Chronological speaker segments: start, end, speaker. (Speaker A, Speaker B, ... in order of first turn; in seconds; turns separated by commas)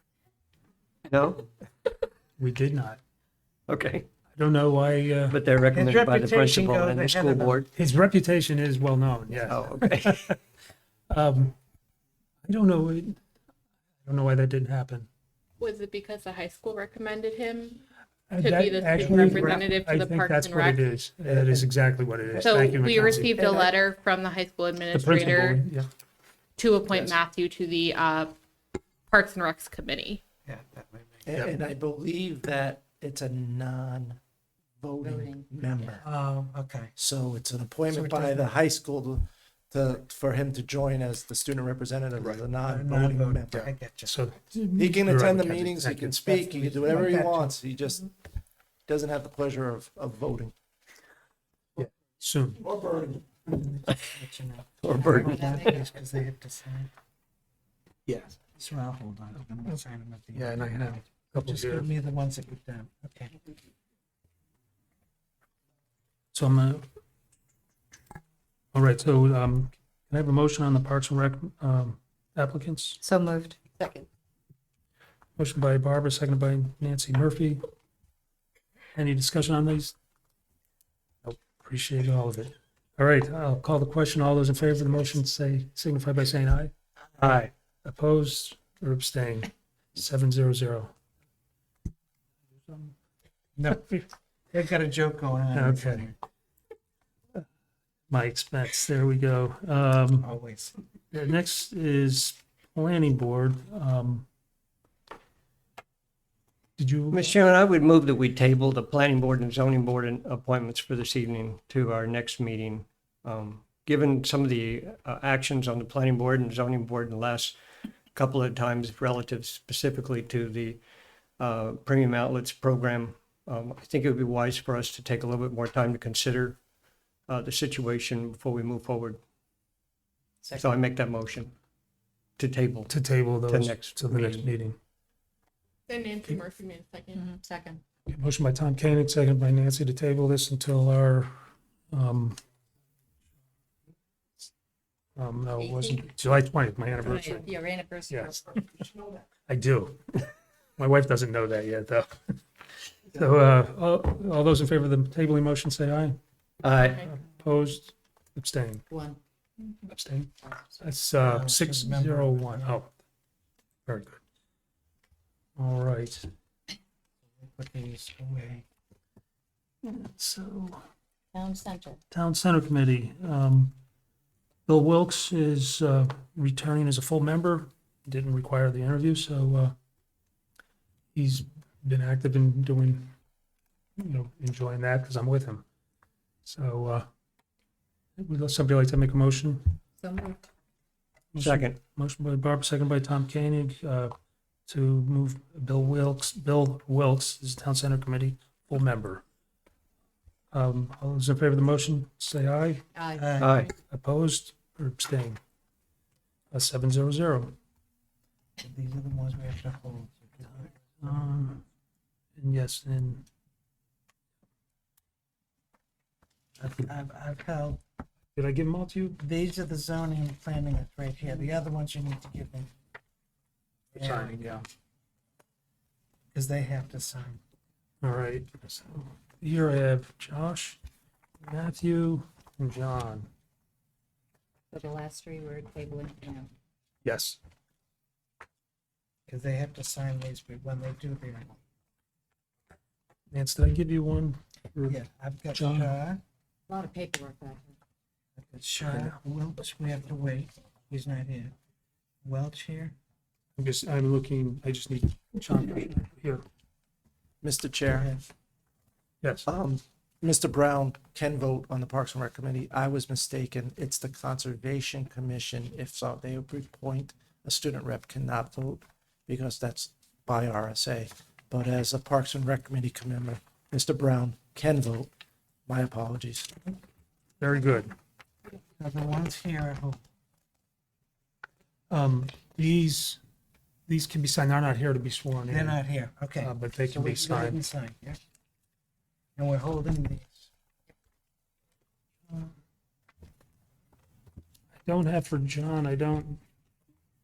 Speaker A: 1.1-1.5, Speaker B: 2.4-3.0, Speaker A: 3.7-4.1, Speaker B: 4.4-5.4, Speaker A: 5.3-7.7, Speaker C: 5.7-7.7, Speaker B: 7.8-10.4, Speaker A: 9.5-10.3, Speaker B: 11.1-11.6, Speaker B: 12.4-13.2, Speaker B: 14.0-15.1, Speaker D: 15.6-17.8, Speaker B: 18.3-23.4, Speaker D: 18.4-20.9, Speaker E: 21.3-21.7, Speaker D: 22.4-25.6, Speaker E: 22.5-23.7, Speaker B: 24.9-25.9, Speaker D: 26.6-28.4, Speaker D: 29.1-30.2, Speaker C: 30.5-31.3, Speaker E: 31.3-34.2, Speaker E: 34.8-36.0, Speaker F: 35.0-35.5, Speaker C: 36.0-36.9, Speaker E: 37.0-43.7, Speaker C: 37.9-38.5, Speaker C: 42.6-44.2, Speaker B: 44.0-46.1, Speaker E: 44.8-48.1, Speaker C: 45.9-47.6, Speaker E: 48.9-50.5, Speaker B: 51.8-52.6, Speaker E: 52.6-53.3, Speaker C: 53.5-56.9, Speaker A: 54.8-55.4, Speaker B: 58.1-58.4, Speaker C: 58.4-63.4, Speaker B: 60.4-61.9, Speaker B: 66.3-66.8, Speaker B: 68.7-73.0, Speaker F: 73.0-74.1, Speaker B: 75.4-77.6, Speaker B: 78.9-80.0, Speaker B: 81.2-90.9, Speaker B: 92.7-92.9, Speaker C: 93.6-94.0, Speaker B: 93.7-94.0, Speaker C: 94.5-96.2, Speaker B: 95.5-96.1, Speaker B: 98.1-100.3, Speaker C: 100.2-100.7, Speaker B: 101.1-104.3, Speaker B: 106.8-107.3, Speaker A: 107.1-117.6, Speaker A: 118.1-120.8, Speaker A: 121.4-126.6, Speaker A: 127.3-129.2, Speaker A: 130.5-131.5, Speaker A: 132.4-134.5, Speaker B: 132.9-134.8, Speaker D: 135.9-137.3, Speaker F: 137.1-137.8, Speaker B: 138.1-141.3, Speaker B: 141.9-142.4, Speaker B: 145.2-147.5, Speaker F: 145.6-146.0, Speaker F: 147.0-148.8, Speaker B: 148.1-148.4, Speaker B: 149.5-152.4, Speaker B: 153.1-156.2, Speaker A: 156.6-157.0, Speaker B: 157.0-158.9, Speaker F: 158.9-159.2, Speaker B: 159.9-162.9, Speaker C: 161.2-162.8, Speaker B: 163.9-164.2, Speaker B: 165.6-166.3, Speaker C: 167.4-168.6, Speaker B: 169.8-170.8, Speaker F: 171.3-172.0, Speaker B: 172.1-173.8, Speaker B: 174.7-179.8, Speaker B: 181.1-183.1, Speaker B: 184.0-185.7, Speaker B: 186.4-187.1, Speaker B: 188.2-189.8, Speaker F: 190.0-190.4, Speaker B: 191.3-194.1, Speaker A: 191.4-191.8, Speaker B: 194.7-199.2, Speaker B: 200.5-202.9, Speaker F: 202.9-203.4, Speaker C: 203.2-203.6, Speaker A: 203.4-203.7, Speaker B: 203.9-205.4, Speaker B: 206.5-207.6, Speaker C: 208.6-211.1, Speaker B: 211.0-211.6, Speaker B: 212.4-213.3, Speaker C: 216.6-217.8, Speaker B: 218.3-219.2, Speaker C: 219.2-222.7, Speaker C: 223.9-224.6, Speaker B: 224.0-224.7, Speaker C: 226.3-227.4, Speaker B: 228.0-230.8, Speaker B: 231.4-233.3, Speaker F: 234.7-236.5, Speaker B: 237.0-237.4, Speaker C: 239.3-241.6, Speaker B: 243.3-245.0, Speaker C: 244.9-246.2, Speaker B: 245.5-246.0, Speaker F: 246.7-247.8, Speaker C: 248.4-251.5, Speaker B: 248.9-249.2, Speaker C: 252.2-252.9, Speaker B: 253.6-256.4, Speaker E: 257.4-258.1, Speaker C: 257.9-258.2, Speaker B: 259.2-259.5, Speaker E: 259.5-275.1, Speaker E: 275.7-276.6, Speaker B: 277.4-277.9, Speaker C: 278.8-280.0, Speaker B: 281.9-283.2, Speaker B: 283.9-285.8, Speaker C: 285.5-288.2, Speaker B: 286.4-287.6, Speaker C: 289.4-290.5, Speaker B: 294.8-296.4